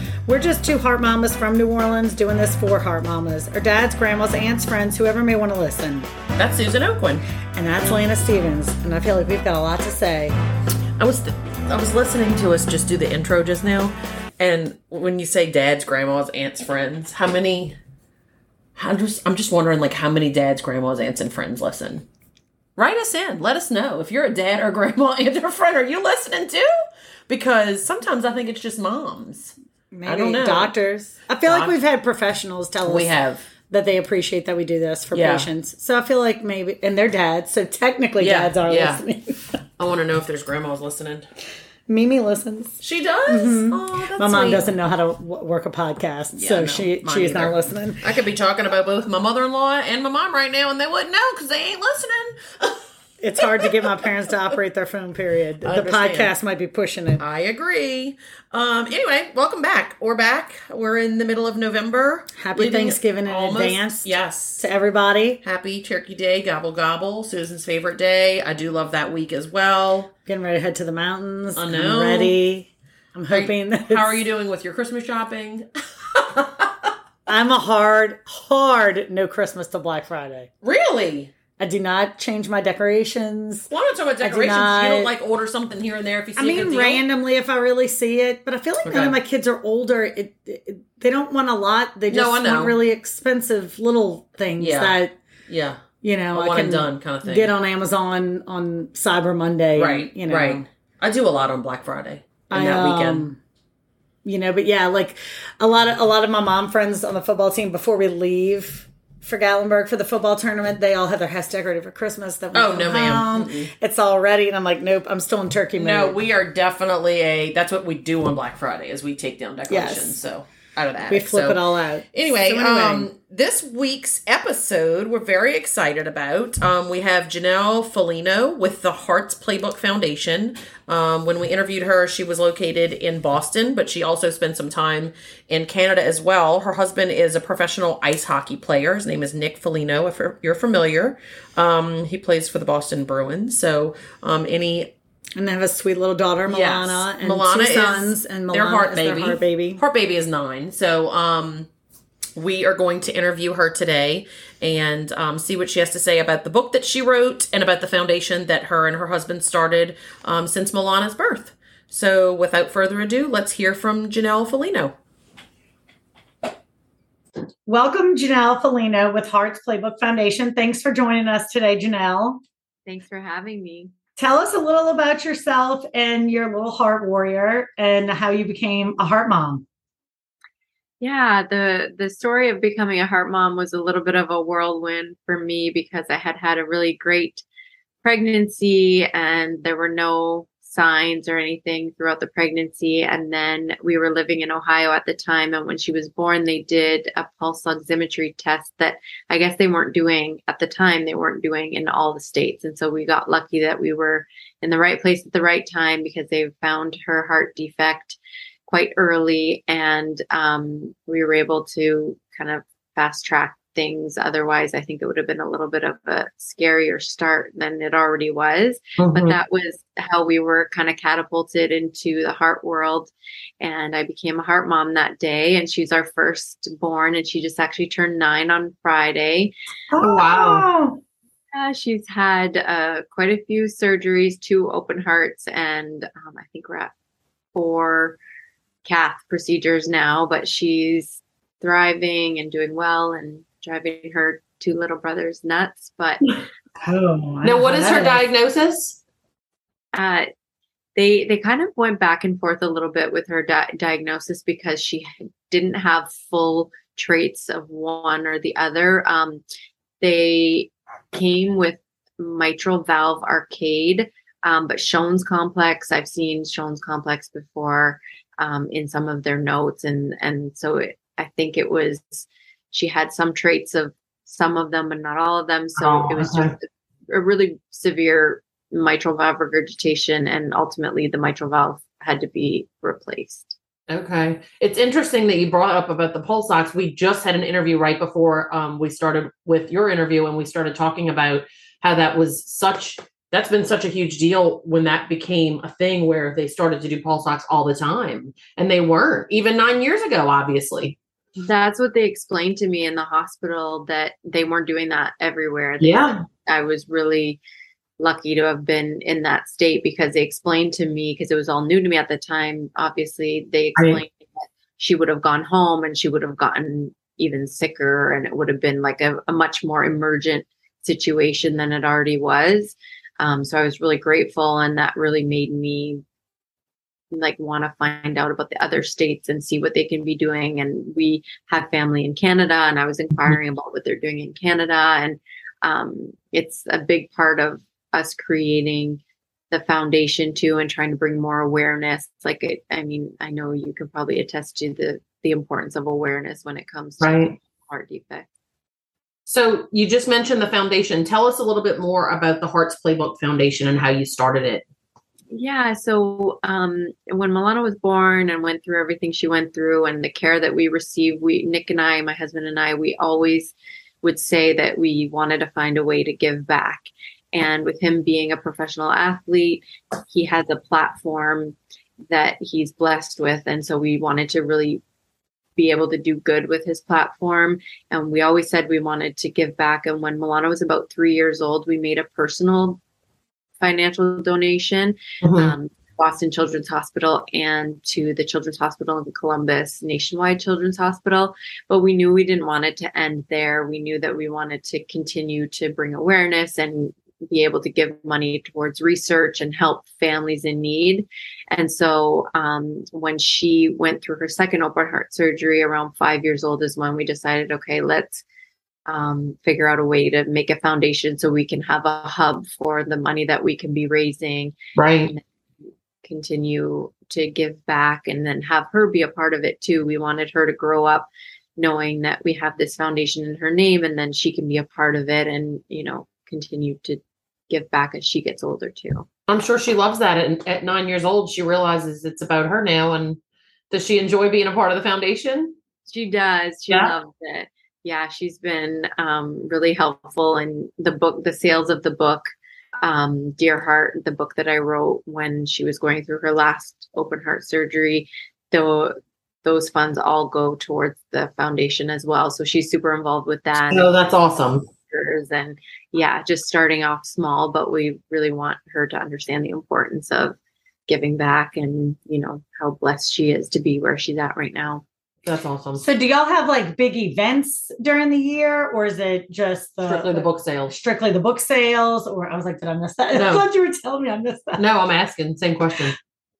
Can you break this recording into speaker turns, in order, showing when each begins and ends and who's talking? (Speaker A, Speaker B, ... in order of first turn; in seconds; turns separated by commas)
Speaker A: 0.3-6.1, Speaker B: 6.4-7.2, Speaker A: 7.5-10.3, Speaker B: 11.0-17.8, Speaker B: 18.8-22.1, Speaker B: 22.8-26.7, Speaker B: 27.3-29.6, Speaker A: 29.9-33.1, Speaker B: 30.1-30.7, Speaker B: 31.5-31.7, Speaker B: 32.9-33.5, Speaker A: 33.7-39.3, Speaker B: 35.1-35.5, Speaker B: 38.2-39.0, Speaker B: 39.8-41.3, Speaker A: 41.9-48.0, Speaker B: 42.8-44.7, Speaker B: 46.4-52.8, Speaker A: 53.2-57.2, Speaker B: 53.4-53.8, Speaker B: 55.6-56.3, Speaker B: 57.2-64.7, Speaker A: 62.4-65.4, Speaker B: 65.4-70.1, Speaker A: 70.3-74.2, Speaker B: 71.5-72.4, Speaker B: 73.3-76.9, Speaker A: 77.3-80.5, Speaker B: 80.6-81.3, Speaker A: 81.6-83.7, Speaker B: 83.7-87.0, Speaker A: 84.2-85.1, Speaker A: 86.4-95.2, Speaker B: 88.8-89.2, Speaker B: 92.1-92.8, Speaker B: 94.6-95.0, Speaker B: 95.5-97.5, Speaker A: 96.0-100.7, Speaker B: 99.8-103.3, Speaker A: 102.5-103.4, Speaker A: 104.2-116.2, Speaker B: 112.5-113.7, Speaker B: 115.8-121.6, Speaker A: 119.7-120.2, Speaker A: 121.1-123.1, Speaker B: 122.1-144.9, Speaker A: 145.4-149.8, Speaker B: 146.5-151.7, Speaker B: 152.4-165.0, Speaker A: 167.7-172.4, Speaker C: 172.9-173.9, Speaker A: 174.2-179.7, Speaker C: 181.0-187.4, Speaker C: 188.0-229.5, Speaker B: 219.0-219.4, Speaker A: 229.9-231.0, Speaker B: 230.0-230.7, Speaker C: 231.5-236.9, Speaker C: 237.6-238.2, Speaker C: 238.8-246.2, Speaker A: 246.8-248.2, Speaker B: 247.4-249.0, Speaker C: 249.9-250.3, Speaker C: 251.0-259.4, Speaker C: 260.0-283.6, Speaker B: 275.8-276.5, Speaker B: 283.9-301.0, Speaker C: 301.4-307.4, Speaker B: 305.8-306.2, Speaker C: 308.0-326.0, Speaker B: 313.8-314.0, Speaker C: 327.1-348.3, Speaker B: 347.0-347.4, Speaker B: 349.3-354.6, Speaker C: 355.3-371.6, Speaker C: 372.1-374.8, Speaker C: 375.6-382.8, Speaker C: 383.6-408.2, Speaker B: 385.2-385.6, Speaker C: 408.9-415.2, Speaker B: 414.8-415.1, Speaker C: 416.0-429.1, Speaker B: 429.3-433.2, Speaker B: 433.7-435.6, Speaker C: 435.9-442.3, Speaker C: 442.8-453.9, Speaker B: 453.6-454.7, Speaker C: 454.9-460.4, Speaker C: 460.9-464.8, Speaker B: 465.2-465.9, Speaker A: 465.8-474.6, Speaker B: 469.9-470.7, Speaker B: 473.1-473.4, Speaker B: 474.6-476.0